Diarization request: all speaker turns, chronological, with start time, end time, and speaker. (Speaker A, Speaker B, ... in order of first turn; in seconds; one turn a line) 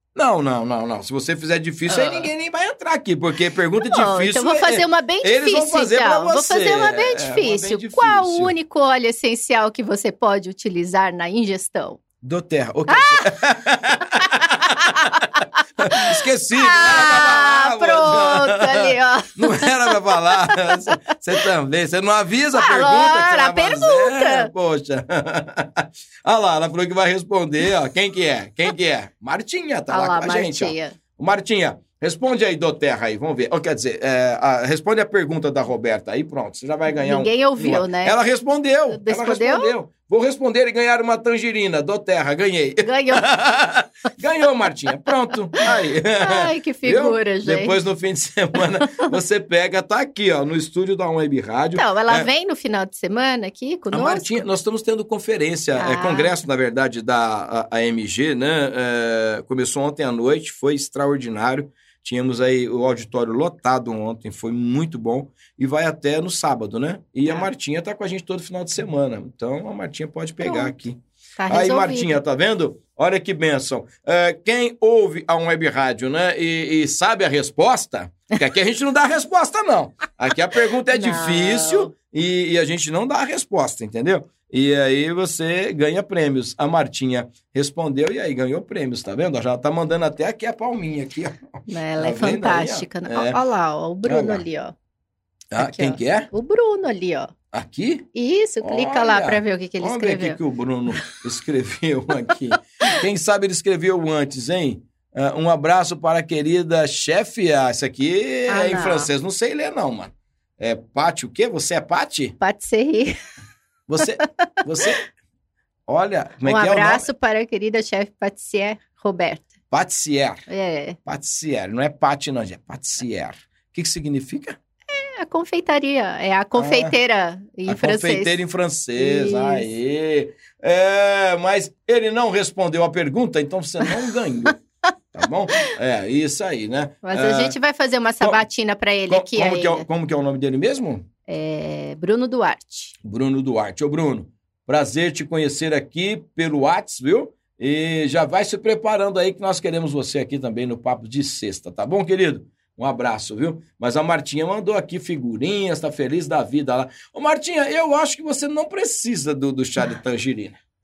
Speaker A: 0.1-8.5
Speaker B: 1.9-2.3
Speaker B: 3.8-12.0
Speaker A: 12.2-15.2
Speaker B: 12.9-13.3
Speaker B: 14.2-21.0
Speaker A: 15.8-52.3
Speaker B: 22.5-24.5
Speaker B: 29.9-30.9
Speaker B: 36.9-38.1
Speaker B: 38.9-39.7
Speaker B: 42.8-43.3
Speaker B: 45.6-47.8
Speaker B: 51.7-54.4
Speaker A: 53.9-93.4
Speaker B: 55.8-56.3
Speaker B: 70.4-70.7
Speaker B: 71.4-72.2
Speaker B: 80.9-81.9
Speaker B: 91.7-94.7
Speaker A: 94.0-94.4
Speaker A: 95.5-96.3
Speaker B: 95.6-97.3
Speaker A: 97.5-98.1
Speaker B: 98.1-100.4
Speaker A: 98.6-112.3
Speaker B: 108.5-109.1
Speaker B: 112.4-113.2
Speaker A: 113.9-115.0
Speaker A: 115.9-117.1
Speaker B: 116.4-119.5
Speaker A: 119.7-120.4
Speaker B: 120.5-121.0
Speaker A: 121.0-124.6
Speaker B: 124.9-128.4
Speaker A: 126.5-126.9
Speaker A: 127.7-134.6
Speaker B: 129.0-129.7
Speaker A: 135.1-137.6
Speaker B: 137.0-139.8
Speaker A: 139.1-141.0
Speaker B: 141.3-142.9
Speaker A: 143.0-160.6